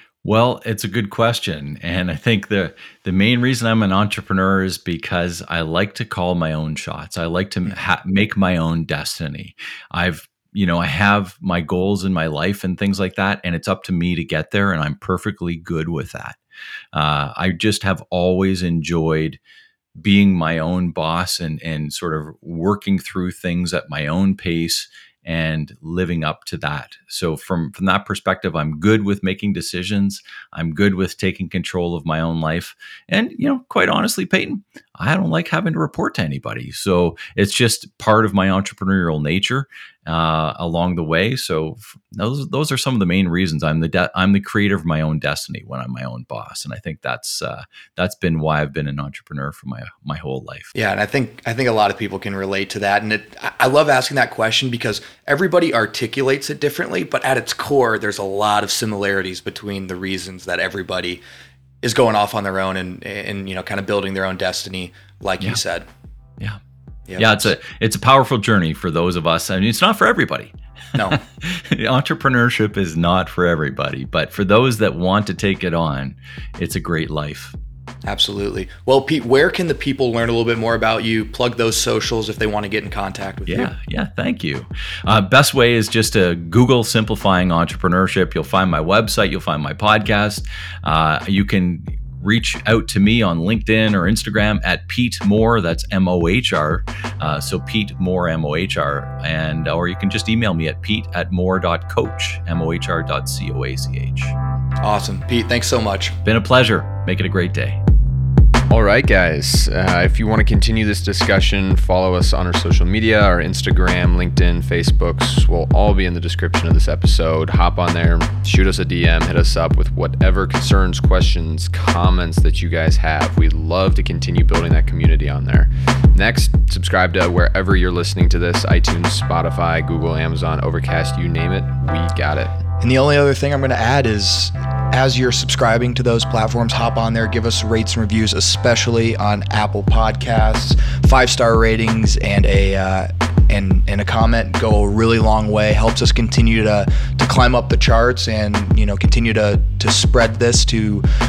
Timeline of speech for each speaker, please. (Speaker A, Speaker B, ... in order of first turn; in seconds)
Speaker A: 0.2-16.4, 16.9-19.4, 20.0-50.7, 67.2-77.5, 83.5-104.3, 106.2-107.8
Speaker B: 50.7-61.2, 61.8-65.8, 67.1-67.5, 71.0-71.2, 78.0-83.7, 104.8-106.2, 132.8-151.0
Speaker C: 108.7-132.6